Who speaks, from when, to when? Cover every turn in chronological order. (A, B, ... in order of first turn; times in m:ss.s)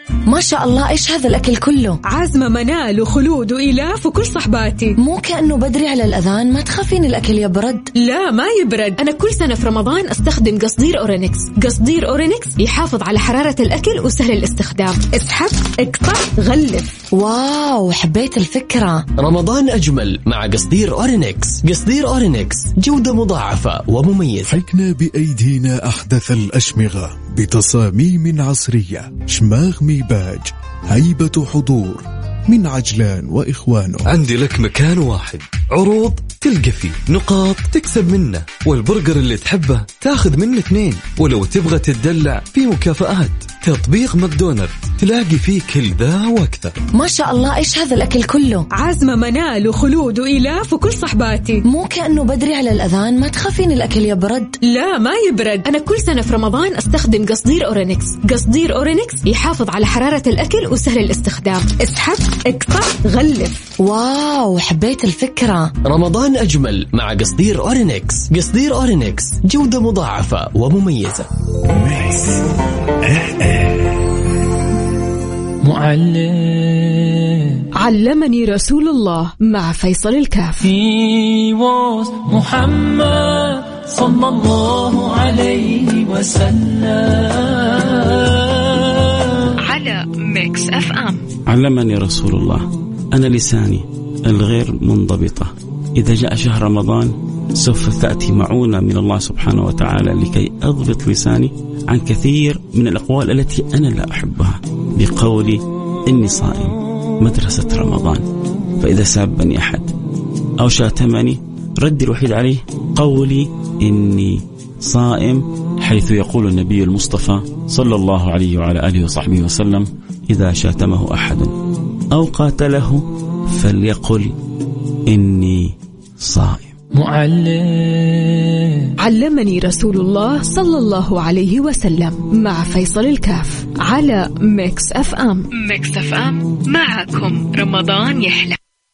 0:00.3-0:02.0 A
0:02.0-0:05.0 B
0:05.0-0:07.9 A
0:08.0-0:17.0 B
0:17.1-0:19.1 A
0:19.2-0:24.6 C
0:24.5-0:34.1 D
0:34.1-0:46.8 E
0:46.9-0:48.7 A
0:48.7-0:51.6 B
0:51.6-0:54.6 A
0:54.6-1:03.7 B
1:03.8-1:05.7 A
1:05.8-1:11.3 C
1:15.6-1:17.6 F
1:17.8-1:20.7 B
1:20.6-1:29.0 F
1:29.7-1:31.2 B
1:31.5-1:48.2 G
1:48.8-1:49.9 G
1:50.6-2:01.5 G
2:02.1-2:04.4 G
2:05.1-2:06.7 G
2:06.9-2:08.9 F
2:09.0-2:18.6 B